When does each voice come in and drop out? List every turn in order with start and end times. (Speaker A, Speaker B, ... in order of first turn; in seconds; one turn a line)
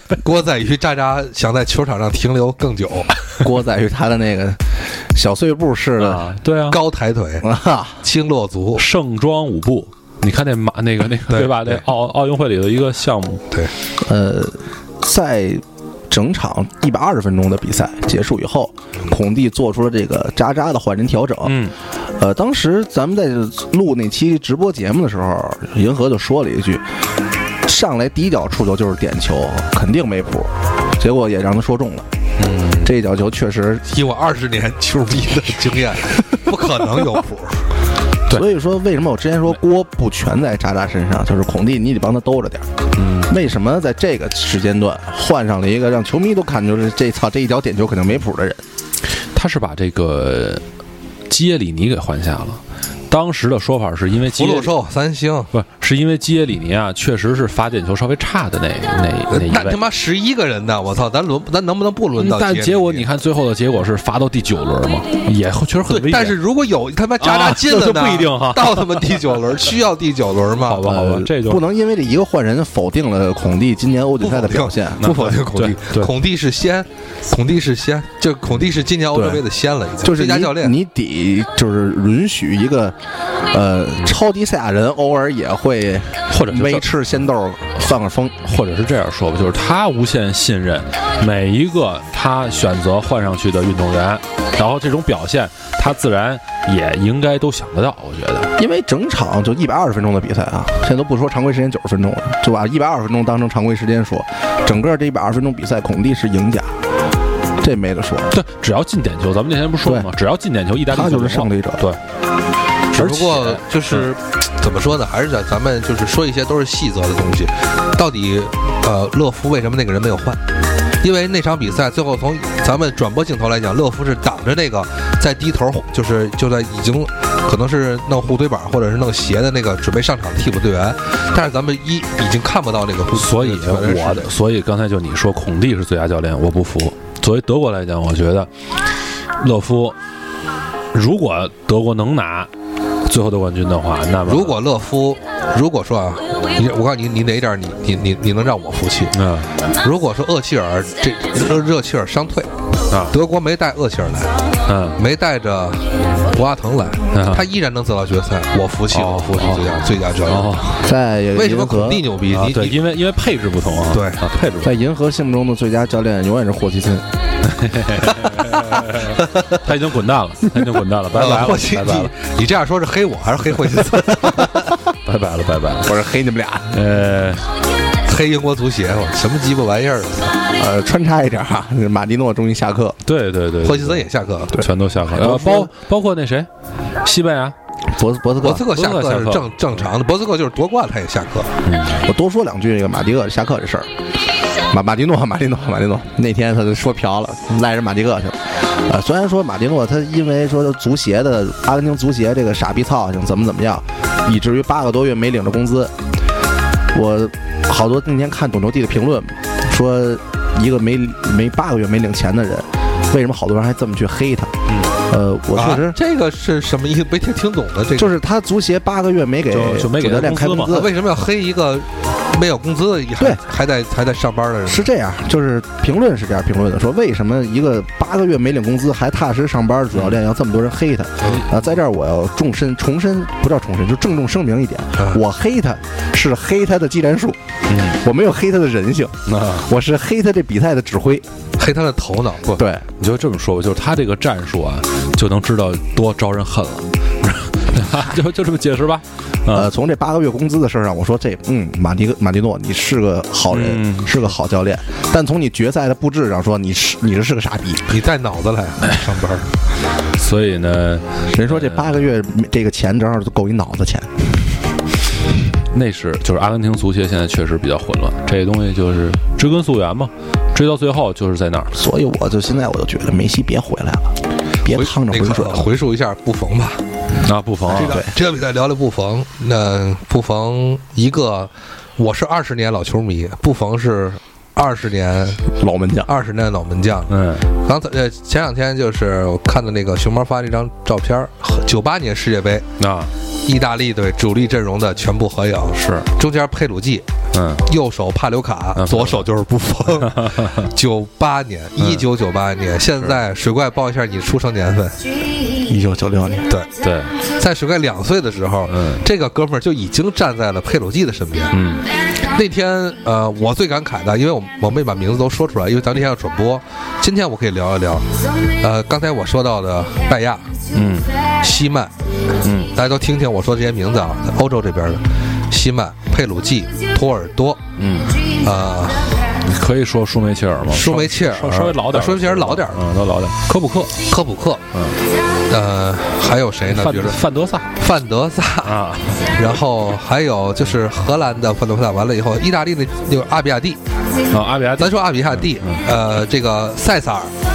Speaker A: 0.1-3.1
Speaker B: 3.4-6.2
Speaker C: 6.0-6.8
Speaker A: 6.7-7.5
Speaker B: 7.4-8.0
Speaker A: 8.0-8.8
Speaker C: 8.8-13.4
Speaker A: 11.3-11.8
Speaker B: 14.0-26.9
Speaker C: 21.4-21.7
Speaker B: 27.6-32.1
Speaker C: 32.4-32.9
Speaker B: 32.8-33.8
Speaker A: 33.9-37.6
Speaker B: 38.3-42.7
Speaker C: 43.0-43.3
Speaker B: 43.3-48.6
Speaker C: 49.3-50.6
Speaker C: 51.3-54.7
Speaker A: 54.3-55.5
Speaker C: 55.5-59.8
Speaker A: 59.3-63.0
Speaker C: 62.2-66.4
Speaker A: 65.9-70.9
Speaker C: 67.2-69.1
Speaker C: 70.6-71.6
Speaker B: 70.8-75.1
Speaker A: 74.2-80.8
Speaker C: 75.0-76.1
Speaker B: 79.1-79.4
Speaker B: 80.0-88.3
Speaker C: 86.3-86.9
Speaker C: 88.4-98.5
Speaker B: 98.6-106.8
Speaker B: 107.6-108.3
Speaker C: 108.3-112.0
Speaker B: 109.8-110.1
Speaker B: 110.9-111.8
Speaker A: 112.9-120.4
Speaker C: 112.9-114.0
Speaker A: 121.0-134.3
Speaker C: 133.1-138.5
Speaker C: 139.4-140.0
Speaker C: 140.9-142.5
Speaker C: 143.1-144.6
Speaker A: 144.3-149.1
Speaker C: 149.1-149.5
Speaker A: 149.7-152.5
Speaker A: 153.1-154.3
Speaker C: 154.7-155.0
Speaker A: 155.0-160.6
Speaker C: 157.1-157.4
Speaker C: 158.9-160.8
Speaker B: 160.8-162.0
Speaker A: 161.3-162.8
Speaker C: 162.3-164.7
Speaker A: 163.9-164.2
Speaker B: 164.6-167.1
Speaker C: 167.4-172.1
Speaker A: 171.1-174.7
Speaker C: 175.0-175.9
Speaker B: 175.8-176.8
Speaker C: 176.7-177.4
Speaker A: 178.0-180.4
Speaker B: 180.6-183.0
Speaker C: 183.1-186.5
Speaker A: 183.6-184.6
Speaker B: 184.5-185.7
Speaker C: 187.0-187.5
Speaker B: 187.9-188.7
Speaker A: 188.4-191.6
Speaker C: 188.7-189.5
Speaker C: 191.6-192.0
Speaker B: 192.0-193.9
Speaker B: 194.7-205.9
Speaker B: 206.9-214.5
Speaker C: 214.7-214.9
Speaker B: 215.1-216.0
Speaker A: 215.5-218.1
Speaker B: 217.9-221.0
Speaker C: 219.5-220.8
Speaker A: 220.7-224.8
Speaker B: 224.7-237.4
Speaker C: 237.7-238.0
Speaker B: 237.9-241.2
Speaker C: 239.2-239.7
Speaker A: 241.6-242.4
Speaker C: 242.4-249.7
Speaker B: 242.6-242.8
Speaker B: 249.5-257.9
Speaker C: 253.5-254.3
Speaker A: 257.9-259.5
Speaker C: 260.1-261.9
Speaker B: 261.3-264.1
Speaker C: 265.7-271.7
Speaker B: 271.7-275.7
Speaker A: 274.7-276.8
Speaker C: 277.2-278.0
Speaker B: 277.7-278.1
Speaker A: 277.7-285.5
Speaker B: 285.6-286.1
Speaker A: 286.1-292.7
Speaker C: 287.1-287.5
Speaker C: 292.8-293.1
Speaker A: 293.4-297.1
Speaker C: 295.7-296.1
Speaker C: 297.3-297.6
Speaker A: 297.6-305.0
Speaker C: 298.8-299.2
Speaker C: 300.0-300.6
Speaker B: 305.6-306.5
Speaker C: 306.8-307.2
Speaker A: 307.3-311.5
Speaker C: 308.7-309.0
Speaker C: 311.5-311.9
Speaker A: 312.3-320.5
Speaker C: 320.7-321.1
Speaker A: 321.4-321.9
Speaker C: 322.4-322.7
Speaker A: 322.7-327.6
Speaker C: 327.8-328.2
Speaker A: 328.4-329.1
Speaker C: 329.4-334.0
Speaker A: 330.7-332.8
Speaker A: 334.1-334.6
Speaker A: 335.5-337.2
Speaker C: 336.7-337.7
Speaker A: 337.8-343.8
Speaker C: 338.6-339.3
Speaker C: 344.3-345.8
Speaker A: 344.8-347.3